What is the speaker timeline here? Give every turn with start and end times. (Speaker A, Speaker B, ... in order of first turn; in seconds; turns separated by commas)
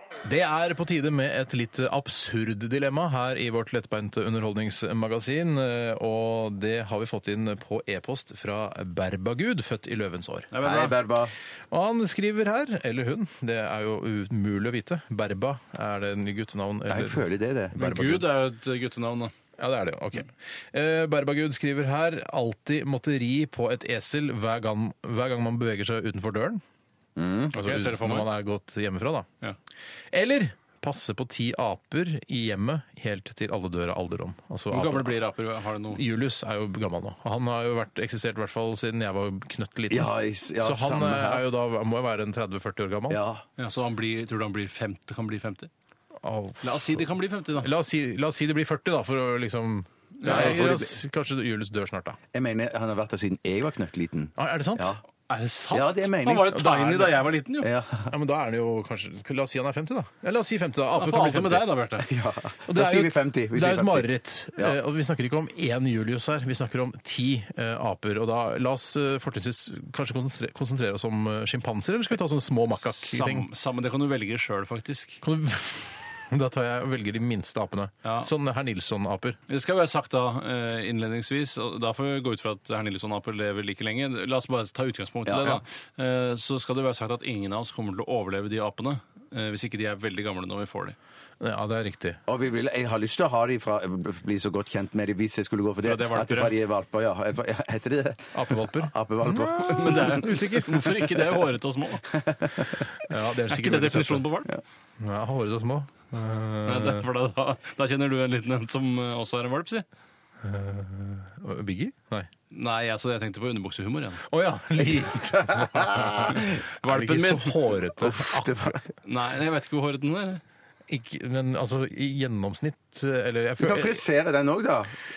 Speaker A: 0.2-10.5, Speaker B: 10.5-10.9, Speaker C: 10.6-11.3, Speaker A: 11.7-18.3, Speaker C: 16.9-17.7, Speaker B: 17.7-19.3, Speaker A: 19.6-26.6, Speaker C: 27.1-27.5, Speaker B: 27.5-28.3, Speaker A: 27.5-29.3, Speaker A: 30.1-35.2, Speaker B: 34.7-36.0, Speaker A: 35.9-43.2, Speaker C: 39.9-41.4, Speaker C: 43.1-43.4, Speaker B: 43.6-45.7, Speaker A: 46.2-47.0, Speaker B: 46.6-47.7, Speaker A: 47.6-52.2, Speaker B: 50.2-50.7, Speaker C: 50.2-50.9, Speaker C: 52.3-55.0, Speaker A: 54.4-54.9, Speaker B: 55.3-57.7, Speaker C: 55.7-56.5, Speaker A: 56.5-57.3, Speaker C: 57.6-58.1, Speaker A: 58.1-61.7, Speaker B: 61.0-62.1, Speaker C: 62.0-64.8, Speaker A: 62.7-73.5, Speaker B: 72.9-75.2, Speaker A: 75.2-79.4, Speaker B: 78.0-78.3, Speaker B: 79.5-91.0, Speaker C: 85.2-85.6, Speaker A: 91.4-92.2, Speaker C: 92.3-100.2, Speaker B: 95.8-96.5, Speaker A: 98.3-101.0, Speaker B: 99.5-102.2, Speaker C: 102.1-102.9, Speaker A: 102.9-104.3, Speaker B: 103.5-104.5, Speaker A: 105.0-107.0, Speaker B: 106.6-109.8, Speaker A: 110.4-112.3, Speaker B: 112.5-114.2, Speaker A: 114.2-118.8, Speaker C: 114.8-116.6, Speaker B: 116.4-117.7, Speaker C: 118.0-118.9, Speaker B: 119.0-120.4, Speaker A: 120.9-124.0, Speaker C: 123.6-124.9